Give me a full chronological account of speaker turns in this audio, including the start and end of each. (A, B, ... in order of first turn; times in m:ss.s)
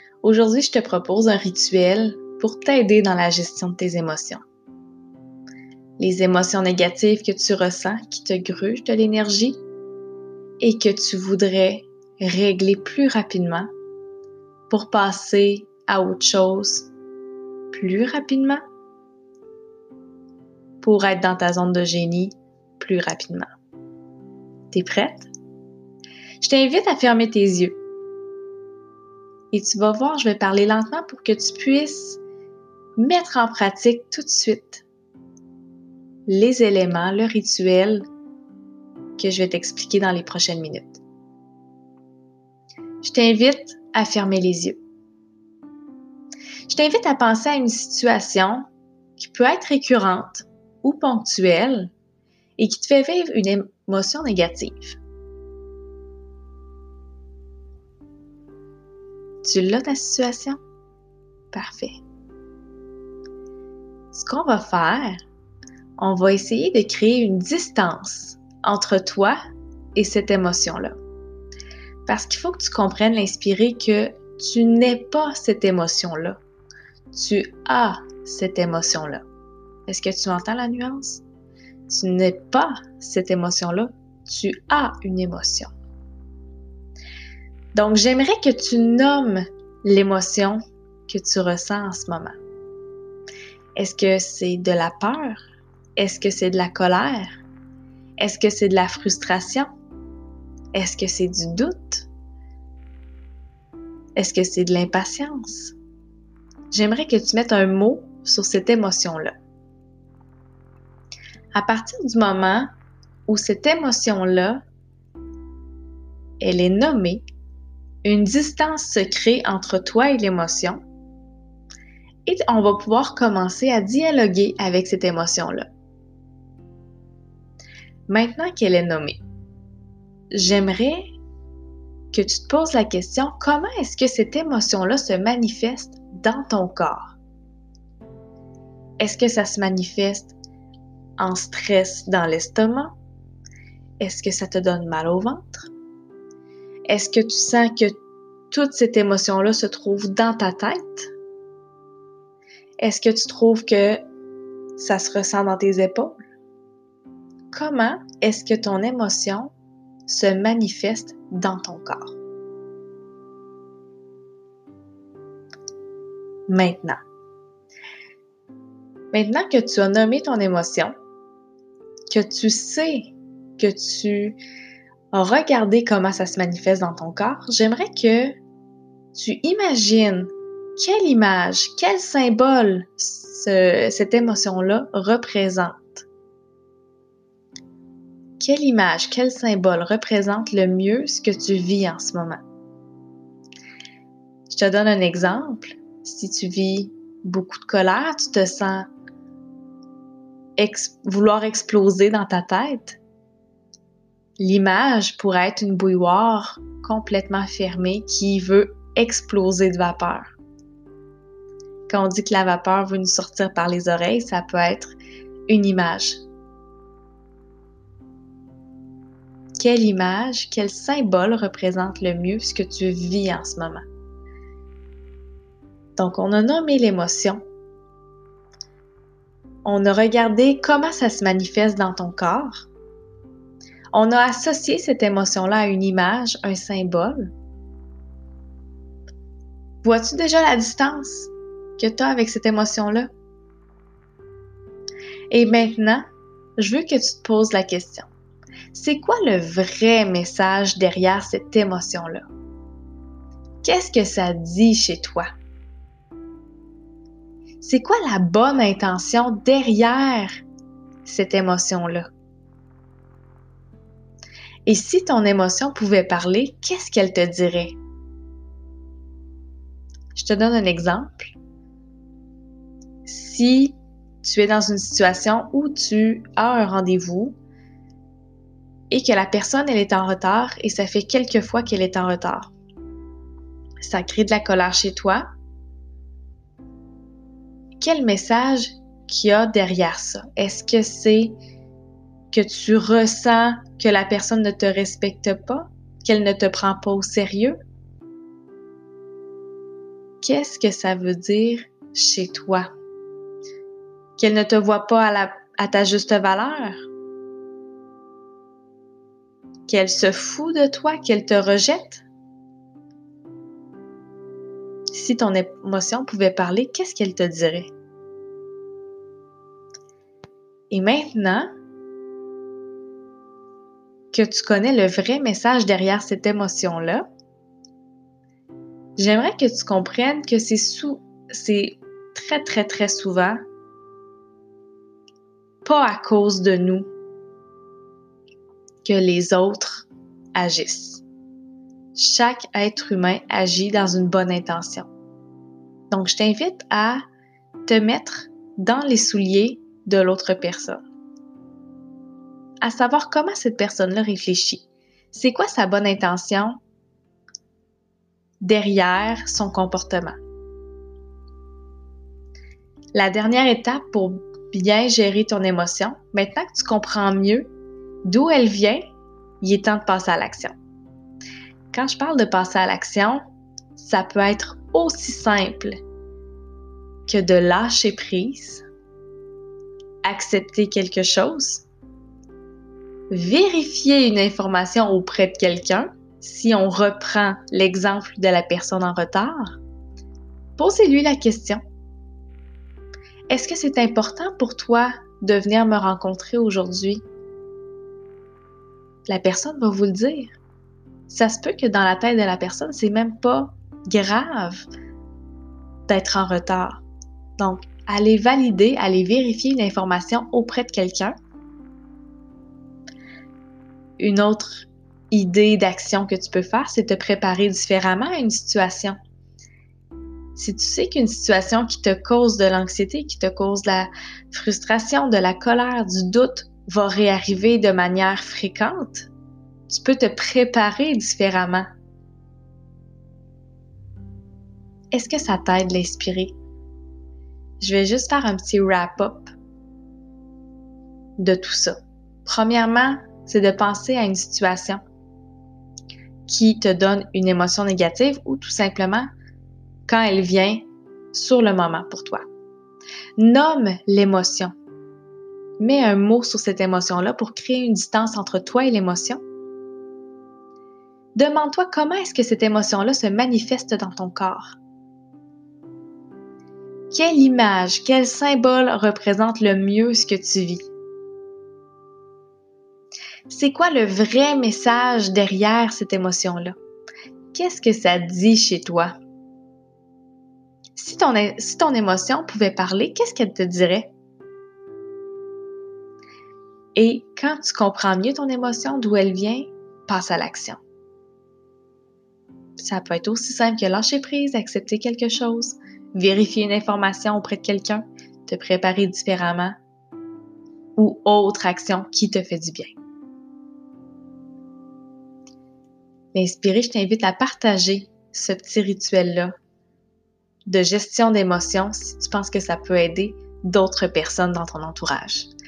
0:00.2-0:04.4 A
0:06.0-0:09.6 A
0:10.6-0:13.7 A
0:14.7-0:16.9 A
0:17.7-0:18.6 A
0:20.8-0:23.5 A
0:24.7-0:25.3 A
0:26.4-0:27.8 A
0:29.5-0:32.2 A
0:33.0-0:34.8 A
0:36.3-0:38.1 A
0:39.2-0:41.0 A
0:43.0-0:44.8 A
0:46.7-0:51.9 A
0:52.6-0:55.0 A
0:59.4-1:00.6 A
1:01.5-1:02.0 A
1:04.1-1:05.2 A
1:06.0-1:09.4 A
1:09.9-1:11.0 A
1:12.0-1:16.4 A
1:17.1-1:19.2 A
1:19.9-1:21.2 A
1:21.9-1:25.7 A
1:27.7-1:32.4 A
1:33.8-1:35.4 A
1:36.0-1:37.4 A
1:38.2-1:39.7 A
1:40.7-1:42.1 A
1:44.2-1:45.8 A
1:46.7-1:49.4 A
1:51.5-1:52.7 A
1:53.3-1:54.6 A
1:56.4-1:57.2 A
1:58.0-2:00.8 A
2:02.2-2:05.7 A
2:08.1-2:09.2 A
2:10.3-2:11.1 A
2:12.1-2:17.2 A
2:19.0-2:20.3 A
2:21.2-2:22.9 A
2:24.0-2:25.7 A
2:26.9-2:28.0 A
2:28.5-2:31.1 A
2:32.8-2:34.0 A
2:34.8-2:36.2 A
2:37.5-2:39.5 A
2:40.1-2:42.1 A
2:46.5-2:47.0 A
2:49.1-2:50.9 A
2:52.1-2:54.4 A
2:55.1-2:58.4 A
2:59.1-3:06.1 A
3:08.4-3:12.4 A
3:14.5-3:18.9 A
3:20.6-3:23.0 A
3:24.4-3:30.4 A
3:31.9-3:34.9 A
3:35.5-3:36.2 A
3:39.6-3:43.8 A
3:46.0-3:47.4 A
3:49.6-3:52.7 A
3:53.9-3:57.3 A
3:59.8-4:03.1 A
4:05.3-4:06.0 A
4:06.6-4:08.1 A
4:08.7-4:12.3 A
4:13.6-4:15.3 A
4:17.6-4:20.3 A
4:21.0-4:22.1 A
4:24.6-4:27.8 A
4:30.1-4:31.4 A
4:33.0-4:37.3 A
4:38.9-4:42.5 A
4:43.8-4:45.3 A
4:47.8-4:51.4 A
4:52.3-4:57.6 A
5:00.2-5:02.7 A
5:04.2-5:06.8 A
5:09.7-5:12.0 A
5:14.9-5:17.7 A
5:20.7-5:21.5 A
5:24.1-5:27.1 A
5:29.0-5:33.4 A
5:35.6-5:36.9 A
5:38.8-5:41.0 A
5:41.9-5:44.9 A
5:45.9-5:47.0 A
5:47.6-5:50.8 A
5:52.6-5:56.6 A
5:58.4-6:00.2 A
6:02.9-6:07.5 A
6:08.0-6:08.8 A
6:09.4-6:10.5 A
6:11.7-6:13.2 A
6:13.8-6:15.8 A
6:17.0-6:18.6 A
6:20.0-6:21.6 A
6:23.1-6:29.6 A
6:30.6-6:31.6 A
6:33.3-6:37.0 A
6:39.0-6:40.4 A
6:41.1-6:44.6 A
6:45.9-6:46.8 A
6:47.4-6:51.2 A
6:54.0-6:59.0 A
7:00.4-7:09.1 A
7:09.7-7:11.6 A
7:14.9-7:16.3 A
7:17.6-7:19.3 A
7:21.2-7:24.8 A
7:26.3-7:29.1 A
7:29.9-7:32.2 A
7:33.2-7:34.5 A
7:35.6-7:39.2 A
7:41.1-7:44.6 A
7:46.9-7:50.7 A
7:53.3-7:56.5 A
7:57.3-7:58.9 A
8:00.8-8:03.9 A
8:06.7-8:10.6 A
8:12.6-8:19.6 A
8:20.8-8:22.7 A
8:26.1-8:29.3 A
8:30.5-8:35.3 A